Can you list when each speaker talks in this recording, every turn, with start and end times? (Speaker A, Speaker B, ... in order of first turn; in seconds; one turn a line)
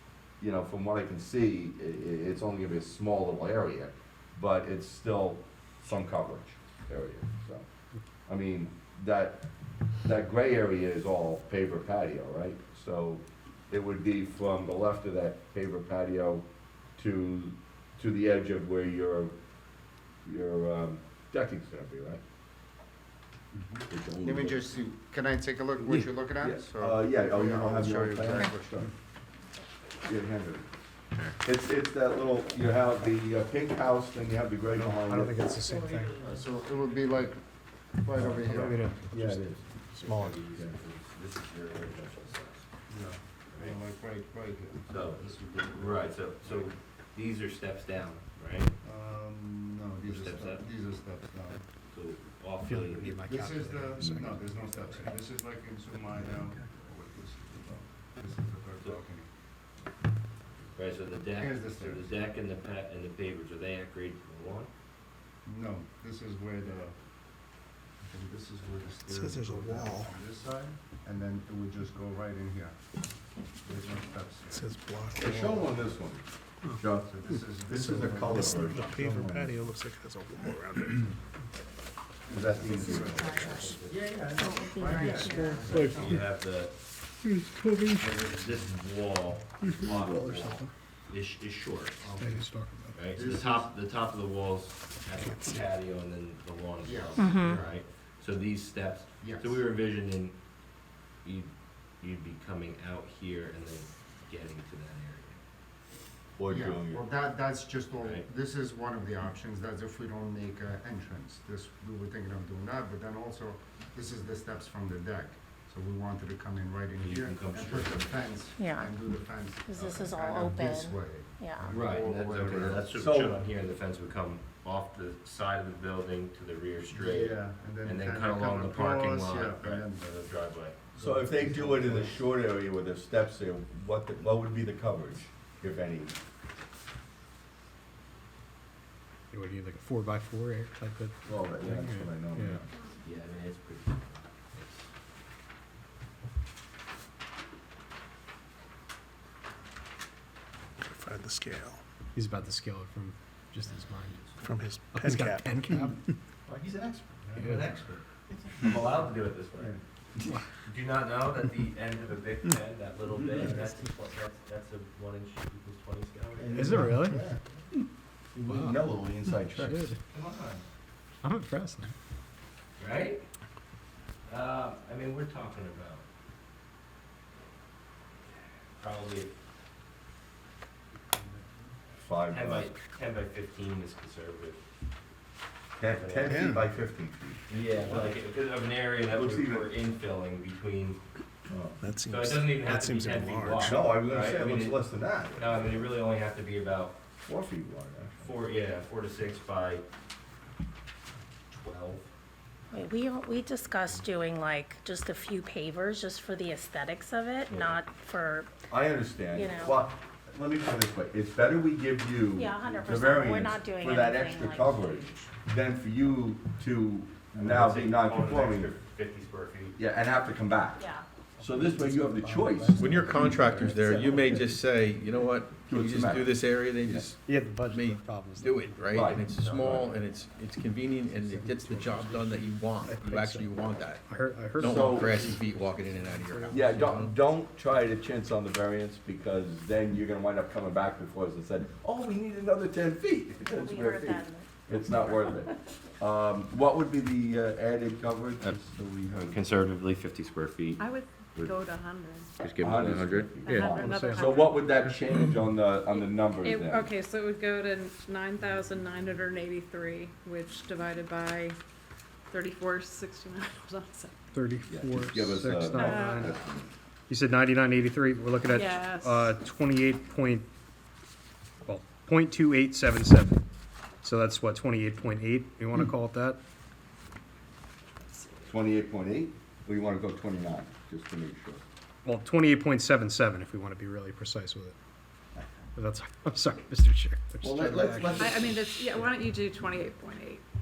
Speaker A: 0.4-7.6
Speaker A: 8.3-9.5
Speaker A: 10.0-16.4
Speaker A: 17.0-19.3
Speaker A: 20.2-22.2
Speaker B: 23.5-28.8
Speaker A: 23.9-24.6
Speaker A: 25.9-28.9
Speaker A: 30.1-30.7
Speaker A: 31.4-35.3
Speaker C: 34.8-36.2
Speaker B: 36.1-37.4
Speaker B: 38.0-38.9
Speaker C: 38.1-40.3
Speaker A: 39.1-39.6
Speaker D: 40.0-42.7
Speaker B: 42.9-46.7
Speaker D: 43.5-43.8
Speaker D: 44.9-48.7
Speaker B: 48.8-51.6
Speaker D: 50.0-50.7
Speaker D: 51.9-53.2
Speaker C: 52.6-55.1
Speaker B: 53.2-59.2
Speaker D: 60.7-64.7
Speaker B: 61.4-62.1
Speaker B: 65.4-66.9
Speaker B: 68.0-72.7
Speaker E: 69.1-70.1
Speaker B: 73.6-74.7
Speaker E: 74.5-75.7
Speaker A: 75.1-77.1
Speaker B: 77.0-78.6
Speaker E: 77.7-81.1
Speaker A: 77.7-79.5
Speaker A: 82.3-83.7
Speaker B: 82.3-86.2
Speaker D: 82.5-84.2
Speaker F: 82.7-83.7
Speaker F: 84.3-85.9
Speaker C: 85.0-86.1
Speaker D: 85.4-86.7
Speaker C: 87.3-88.0
Speaker D: 88.0-92.2
Speaker A: 89.8-90.3
Speaker C: 90.0-90.6
Speaker B: 92.0-92.5
Speaker C: 92.2-93.2
Speaker D: 92.9-100.3
Speaker B: 93.1-93.7
Speaker B: 96.8-97.8
Speaker F: 97.2-97.5
Speaker B: 99.2-99.6
Speaker D: 101.2-105.4
Speaker A: 106.4-107.0
Speaker B: 106.5-123.3
Speaker D: 108.0-108.3
Speaker D: 117.0-118.2
Speaker F: 118.6-118.9
Speaker F: 119.7-121.8
Speaker D: 121.7-130.8
Speaker A: 122.9-123.4
Speaker B: 126.9-130.1
Speaker B: 130.9-132.2
Speaker A: 131.0-136.1
Speaker C: 139.3-142.6
Speaker A: 141.2-142.7
Speaker D: 143.0-144.8
Speaker E: 150.8-151.8
Speaker C: 152.1-154.3
Speaker E: 154.3-155.9
Speaker C: 154.9-156.0
Speaker A: 156.4-157.5
Speaker D: 157.4-159.8
Speaker C: 157.4-157.7
Speaker D: 160.6-166.8
Speaker A: 166.4-167.4
Speaker C: 166.5-167.2
Speaker A: 168.3-169.9
Speaker C: 168.5-168.8
Speaker C: 169.4-170.0
Speaker D: 170.1-170.6
Speaker C: 171.2-171.9
Speaker D: 172.8-173.2
Speaker D: 174.3-176.0
Speaker D: 178.8-179.3
Speaker A: 182.0-182.7
Speaker D: 182.3-184.6
Speaker A: 185.8-188.1
Speaker D: 185.8-186.5
Speaker E: 186.3-186.6
Speaker D: 187.5-191.0
Speaker A: 189.1-189.7
Speaker A: 191.5-191.8
Speaker E: 191.8-193.9
Speaker D: 192.0-197.0
Speaker A: 193.6-195.9
Speaker A: 197.2-198.3
Speaker D: 198.2-199.8
Speaker D: 201.5-202.1
Speaker F: 202.7-208.5
Speaker A: 208.7-218.7
Speaker F: 209.3-209.8
Speaker F: 212.3-215.2
Speaker D: 217.3-219.8
Speaker A: 219.8-220.8
Speaker F: 220.8-221.1
Speaker C: 221.4-223.9
Speaker A: 221.4-224.5
Speaker G: 222.8-237.1
Speaker A: 225.7-227.1
Speaker C: 227.2-229.0
Speaker A: 228.9-229.8
Speaker D: 229.2-230.1
Speaker C: 231.1-237.1
Speaker A: 234.6-235.3
Speaker A: 236.5-249.4
Speaker F: 243.4-244.8
Speaker D: 249.1-250.8
Speaker H: 250.8-252.3
Speaker D: 252.4-253.7
Speaker A: 252.6-256.9
Speaker H: 253.4-254.7
Speaker C: 253.5-254.9
Speaker H: 255.9-261.6
Speaker H: 262.3-264.1
Speaker C: 264.3-266.3
Speaker A: 264.7-266.7
Speaker H: 265.7-266.3
Speaker C: 267.1-270.5
Speaker H: 268.5-269.3
Speaker C: 271.6-273.4
Speaker C: 274.0-276.4
Speaker H: 278.1-278.4
Speaker A: 278.5-281.6
Speaker C: 282.0-284.7
Speaker C: 285.8-288.4
Speaker A: 287.4-289.0
Speaker H: 288.1-290.4